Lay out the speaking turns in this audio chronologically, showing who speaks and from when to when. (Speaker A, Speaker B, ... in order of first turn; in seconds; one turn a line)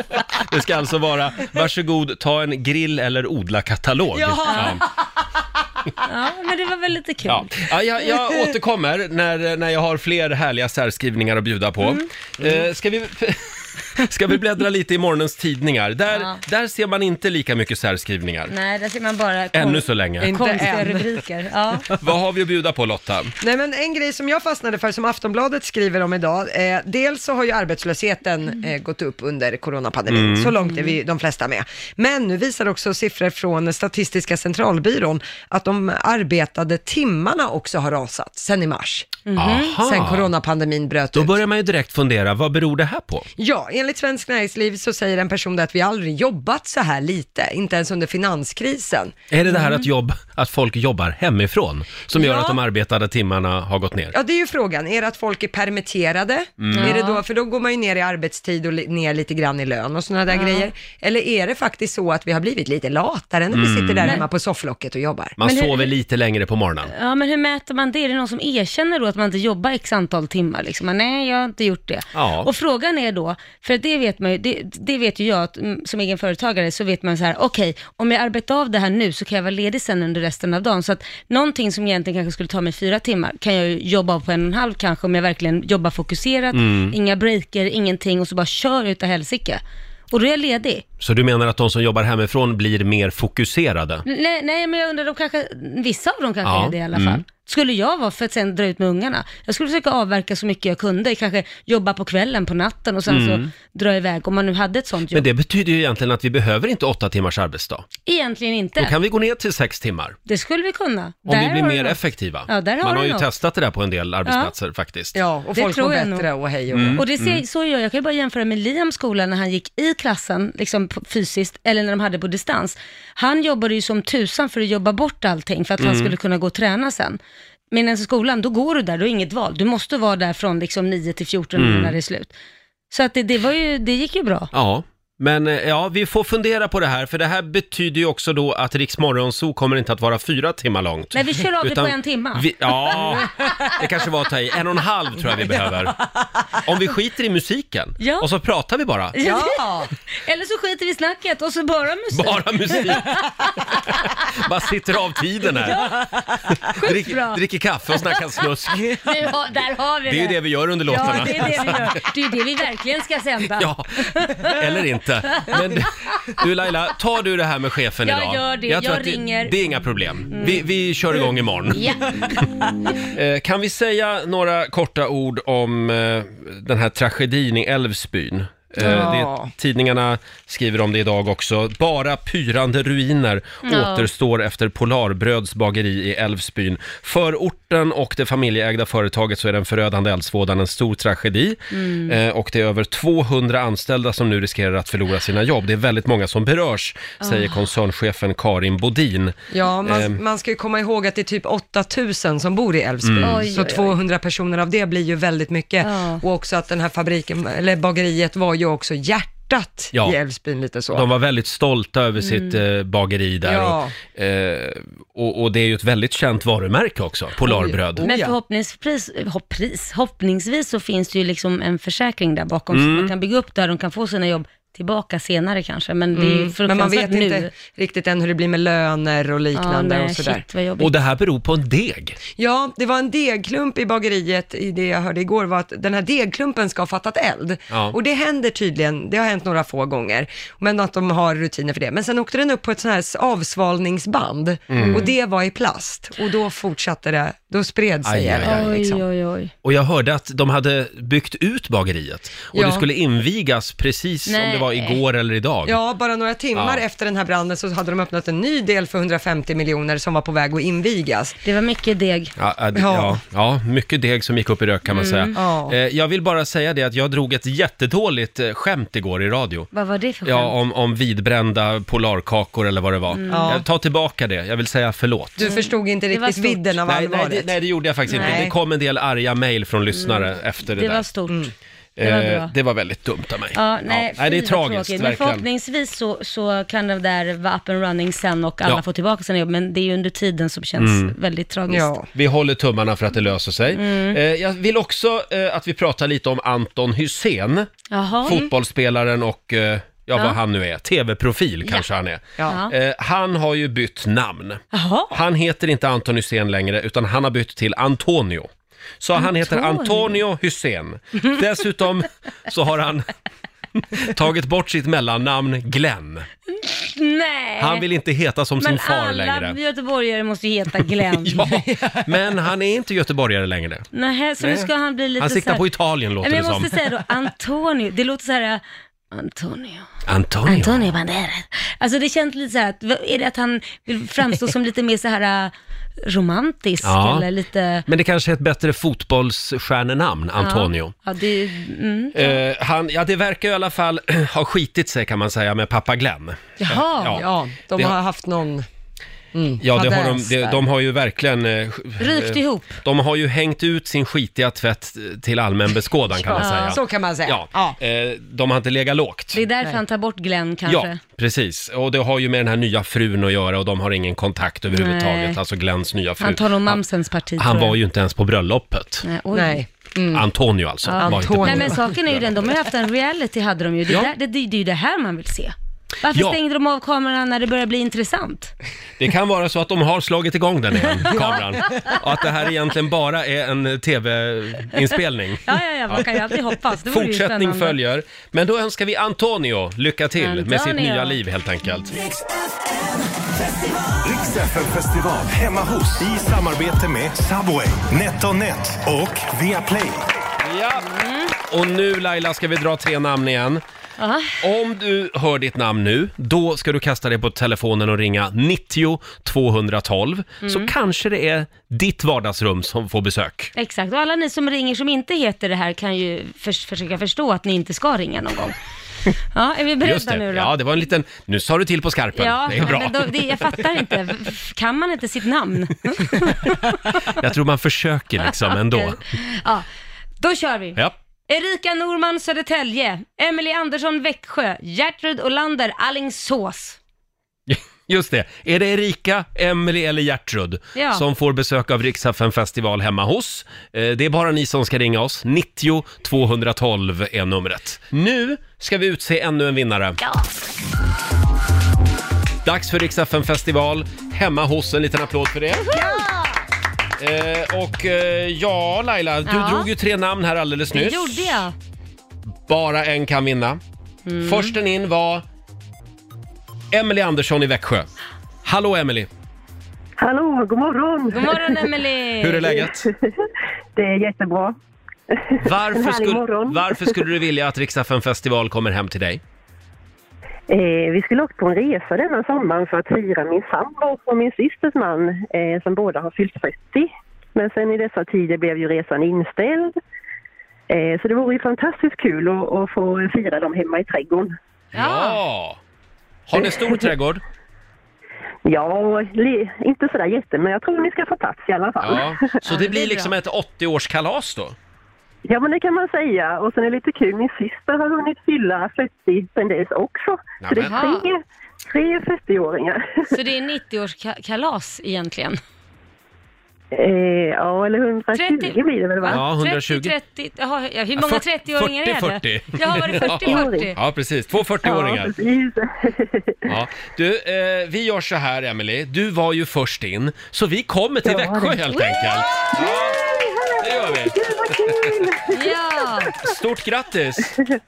Speaker A: 0.3-4.8
Speaker B: 4.1-4.8
Speaker C: 4.5-4.8
Speaker C: 6.0-7.5
Speaker A: 7.2-18.5
Speaker C: 16.1-16.4
Speaker C: 18.5-21.9
Speaker A: 19.5-20.5
Speaker B: 20.2-21.0
Speaker A: 21.9-23.3
Speaker B: 23.4-39.2
Speaker A: 30.1-30.5
Speaker C: 30.6-30.9
Speaker C: 39.2-39.8
Speaker A: 39.3-40.3
Speaker B: 39.8-41.4
Speaker A: 41.1-43.3
Speaker B: 43.4-49.1
Speaker A: 49.3-54.1
Speaker C: 49.5-49.8
Speaker B: 52.2-52.5
Speaker B: 54.1-65.3
Speaker A: 56.6-57.0
Speaker C: 56.7-57.2
Speaker C: 60.3-60.7
Speaker A: 63.5-64.2
Speaker A: 65.4-66.9
Speaker C: 65.4-65.9
Speaker C: 66.9-90.8
Speaker A: 72.1-72.5
Speaker A: 86.5-87.0
Speaker A: 91.0-94.0
Speaker C: 94.0-105.3
Speaker A: 96.4-97.2
Speaker A: 103.1-103.5
Speaker A: 105.1-107.9
Speaker C: 108.0-108.9
Speaker A: 108.8-110.2
Speaker C: 110.2-113.3
Speaker A: 111.2-115.2
Speaker C: 114.2-114.5
Speaker B: 115.1-117.0
Speaker C: 115.5-116.3
Speaker A: 116.7-117.4
Speaker C: 116.9-127.2
Speaker A: 125.8-126.1
Speaker C: 127.7-132.3
Speaker A: 131.6-132.0
Speaker C: 132.9-134.5
Speaker A: 134.5-146.0
Speaker C: 141.1-142.9
Speaker A: 146.6-149.2
Speaker C: 148.0-148.3
Speaker C: 149.1-149.6
Speaker B: 149.2-149.9
Speaker C: 150.1-154.1
Speaker A: 152.1-153.2
Speaker A: 153.8-156.0
Speaker C: 155.6-156.0
Speaker A: 156.6-159.0
Speaker C: 156.7-157.4
Speaker C: 159.0-164.6
Speaker A: 160.1-162.0
Speaker A: 163.6-171.9
Speaker C: 168.0-169.5
Speaker C: 170.3-170.6
Speaker C: 171.7-172.4
Speaker A: 173.1-200.2
Speaker B: 178.8-179.5
Speaker C: 183.6-184.1
Speaker C: 191.7-192.2
Speaker C: 197.2-197.6
Speaker B: 199.5-211.1
Speaker A: 203.0-203.5
Speaker C: 203.2-203.9
Speaker C: 205.8-206.2
Speaker A: 210.9-218.1
Speaker C: 212.2-212.6
Speaker B: 213.4-213.9
Speaker B: 217.4-218.3
Speaker C: 218.0-227.5
Speaker A: 222.7-223.1
Speaker B: 226.1-230.4
Speaker C: 229.5-230.9
Speaker A: 230.8-232.2
Speaker B: 232.4-249.0
Speaker A: 237.7-237.9
Speaker A: 244.7-245.1
Speaker C: 244.7-245.1
Speaker A: 248.0-248.7
Speaker C: 248.4-249.5
Speaker A: 249.6-255.8
Speaker B: 252.5-252.8
Speaker C: 254.3-255.0
Speaker B: 255.7-261.4
Speaker A: 256.5-256.8
Speaker C: 261.4-262.3
Speaker A: 262.4-269.7
Speaker B: 262.8-263.2
Speaker C: 264.9-265.4
Speaker B: 265.3-265.8
Speaker C: 269.7-270.5
Speaker A: 270.2-275.6
Speaker C: 273.1-273.6
Speaker B: 273.3-273.6
Speaker B: 275.4-277.5
Speaker C: 275.4-276.7
Speaker A: 276.8-281.1
Speaker C: 278.1-278.4
Speaker B: 278.1-278.5
Speaker C: 279.9-281.4
Speaker A: 282.0-285.4
Speaker C: 282.0-282.5
Speaker C: 283.5-291.9
Speaker A: 290.8-291.1
Speaker B: 291.7-292.1
Speaker A: 292.1-297.7
Speaker C: 293.7-294.2
Speaker C: 297.9-298.5
Speaker A: 298.2-313.1
Speaker C: 302.5-302.7
Speaker C: 304.7-305.2
Speaker C: 309.1-310.2
Speaker A: 313.8-316.3
Speaker C: 316.5-317.9
Speaker A: 317.6-319.6
Speaker C: 318.6-321.4
Speaker A: 321.2-323.9
Speaker B: 321.4-322.1
Speaker C: 323.9-325.7
Speaker A: 324.4-326.7
Speaker C: 326.2-329.9
Speaker A: 330.1-331.0
Speaker C: 330.4-337.9
Speaker A: 336.8-337.3
Speaker A: 337.9-340.9
Speaker C: 340.4-342.4
Speaker A: 342.1-347.9
Speaker C: 346.6-347.2
Speaker B: 346.7-348.6
Speaker B: 349.3-350.6
Speaker A: 349.6-359.4
Speaker C: 352.0-352.8
Speaker B: 356.2-357.8
Speaker C: 356.4-356.8
Speaker C: 359.3-361.0
Speaker A: 360.6-366.8
Speaker C: 364.7-365.4
Speaker C: 366.2-367.8
Speaker A: 367.4-369.1
Speaker C: 369.0-369.6
Speaker B: 369.3-370.3
Speaker A: 370.1-372.3
Speaker C: 370.8-378.5
Speaker B: 371.0-371.8
Speaker A: 376.1-376.4
Speaker A: 379.0-392.0
Speaker C: 380.8-381.9
Speaker C: 385.4-387.8
Speaker C: 390.2-391.2
Speaker D: 394.0-400.1
Speaker A: 400.4-403.6
Speaker C: 400.8-401.3
Speaker C: 404.0-404.4
Speaker A: 404.4-413.5
Speaker C: 410.4-410.7
Speaker C: 413.5-418.6
Speaker C: 419.3-420.5
Speaker A: 419.8-423.6
Speaker C: 422.2-427.2
Speaker A: 427.1-429.0
Speaker C: 428.5-429.6
Speaker C: 430.2-436.8
Speaker A: 437.5-450.0
Speaker C: 440.7-441.0
Speaker C: 450.0-450.3
Speaker A: 452.4-455.8
Speaker C: 455.6-456.3
Speaker A: 457.0-461.4
Speaker C: 459.2-459.7
Speaker C: 460.7-461.5
Speaker A: 462.5-463.6
Speaker C: 464.1-464.6
Speaker A: 464.2-465.2
Speaker A: 466.7-467.9
Speaker A: 468.4-469.1
Speaker E: 470.0-471.6
Speaker C: 471.1-472.6
Speaker A: 472.2-472.9
Speaker E: 472.6-472.9
Speaker E: 473.8-474.5
Speaker E: 475.1-476.9
Speaker A: 475.4-479.2
Speaker E: 480.5-489.7
Speaker E: 490.7-494.3
Speaker A: 494.7-495.6
Speaker C: 494.7-495.2
Speaker A: 496.3-497.2
Speaker E: 496.4-496.8
Speaker E: 498.4-502.2
Speaker A: 501.8-504.6
Speaker C: 502.4-503.1
Speaker E: 505.2-513.1
Speaker A: 510.4-510.8
Speaker C: 510.6-511.1
Speaker C: 513.1-515.4
Speaker E: 516.7-519.2
Speaker C: 518.1-523.8
Speaker A: 519.1-519.9
Speaker A: 521.0-525.1
Speaker E: 523.1-523.7
Speaker E: 524.6-526.4
Speaker A: 526.5-533.1
Speaker E: 531.0-531.6
Speaker C: 531.7-532.0
Speaker E: 532.4-535.5
Speaker A: 533.6-535.0
Speaker C: 535.3-536.1
Speaker A: 536.2-537.3